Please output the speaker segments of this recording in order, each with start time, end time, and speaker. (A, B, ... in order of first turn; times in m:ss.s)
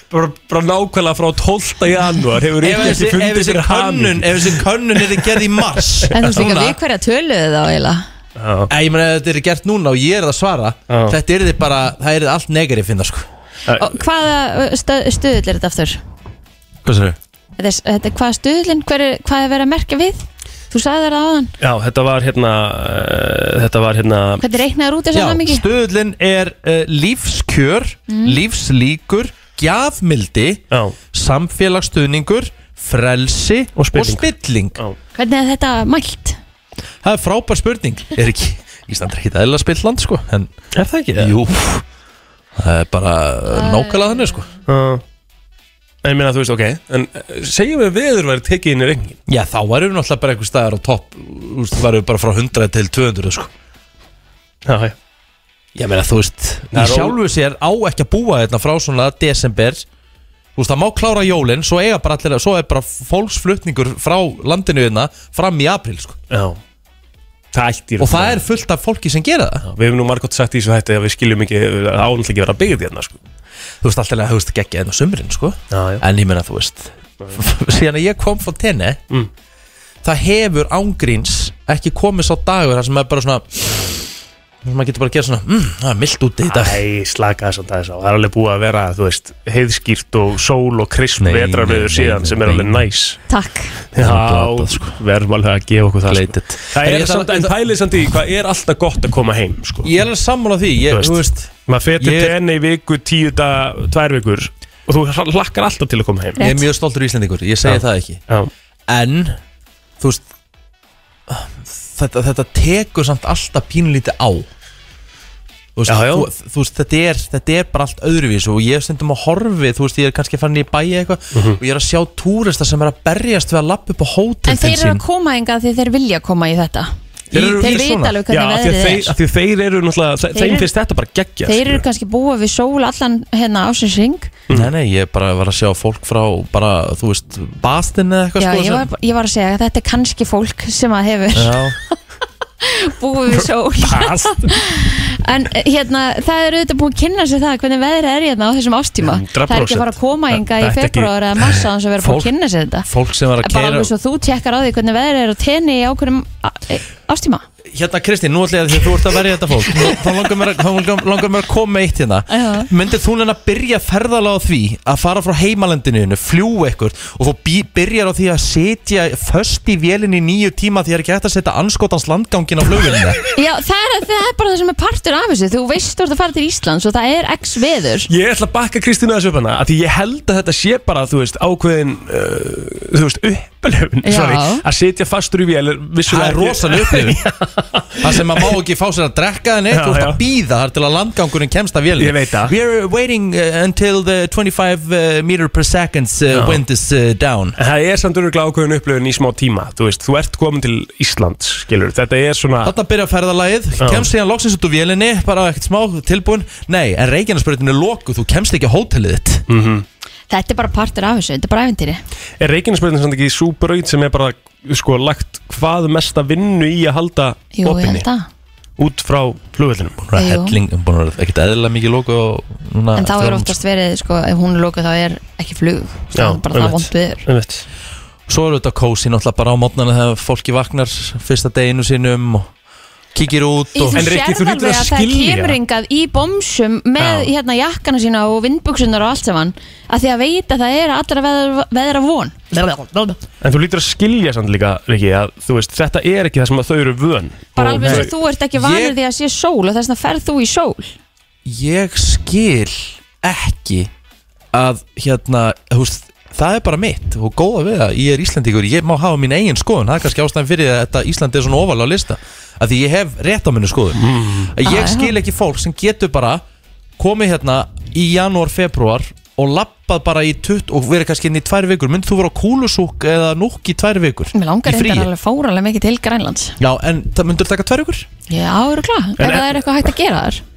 0:00.1-0:05.2 A
0:02.6-0:06.8 B
0:06.1-0:08.1 C
0:08.4-0:08.7 A
0:08.7-0:13.3 B
0:10.9-0:11.2 A
0:13.7-0:13.9 A
0:13.8-0:16.0 C
0:16.8-0:17.2 B
0:17.6-0:21.5 C
0:21.6-0:24.4 A
0:24.4-0:25.6 C
0:25.1-0:30.6 B
0:28.1-0:28.4 C
0:31.1-0:34.8 B
0:33.8-0:35.0 A
0:35.2-0:36.4 C
0:37.0-0:40.5 B
0:40.8-0:41.4 A
0:41.2-0:41.8 B
0:42.6-0:44.5 B
0:43.6-0:44.4 C
0:44.7-0:45.0 A
0:46.0-0:49.2 A
0:49.3-0:53.5 B
0:54.7-0:55.0 A
0:55.8-0:59.9 B
0:56.7-0:57.2 A
1:00.6-1:06.2 B
1:06.3-1:06.6 A
1:07.5-1:08.4 A
1:08.0-1:09.6 B
1:09.6-1:13.2 A
1:13.8-1:19.0 B
1:15.7-1:16.0 A
1:20.0-1:24.1 B
1:24.6-1:26.8 B
1:26.5-1:33.2 A
1:31.2-1:32.8 B
1:33.3-1:33.8 C
1:33.9-1:39.9 A
1:34.0-1:35.0 B
1:36.1-1:37.5 B
1:39.8-1:42.4 B
1:40.9-1:46.4 A
1:46.4-1:46.6 C
1:46.4-1:48.2 B
1:47.6-1:48.5 A
1:48.9-1:49.4 B
1:51.3-1:54.5 B
1:55.8-2:05.0 B
1:55.9-1:56.3 A
2:01.3-2:01.6 A
2:04.5-2:06.9 C
2:07.3-2:08.2 B
2:07.3-2:11.8 A
2:07.5-2:09.1 C
2:10.4-2:10.7 C
2:11.4-2:14.3 C
2:14.5-2:18.9 B
2:18.4-2:22.0 C
2:21.4-2:21.8 B
2:22.6-2:32.9 C
2:23.8-2:24.5 A
2:29.0-2:31.6 A
2:32.0-2:32.3 B
2:32.8-2:33.9 B
2:33.4-2:37.4 C
2:37.7-2:53.2 B
2:42.3-2:42.7 C
2:53.3-2:58.1 C
2:58.1-3:08.5 A
3:04.0-3:04.6 C
3:06.1-3:07.2 B
3:08.0-3:17.6 B
3:09.7-3:10.2 A
3:12.0-3:12.5 A
3:16.3-3:16.6 A
3:17.6-3:22.7 A
3:22.6-3:29.4 B
3:23.8-3:24.1 A
3:29.5-3:29.9 A
3:30.3-3:32.0 C
3:32.4-3:38.1 A
3:37.6-3:38.3 C
3:38.8-3:40.0 A
3:40.0-3:43.6 B
3:40.2-3:40.6 C
3:43.0-3:47.3 C
3:46.2-3:47.6 A
3:48.3-3:52.5 B
3:53.1-3:54.1 B
3:53.8-4:03.1 C
3:54.0-3:55.6 A
3:57.0-3:57.3 A
4:03.4-4:08.1 A
4:07.6-4:10.9 C
4:07.8-4:09.0 B
4:11.4-4:13.9 B
4:14.5-4:26.4 B
4:24.0-4:24.5 A
4:24.6-4:25.2 C
4:27.0-4:35.1 B
4:34.3-4:36.6 C
4:36.6-4:38.1 B
4:38.3-4:40.4 C
4:39.2-4:39.6 A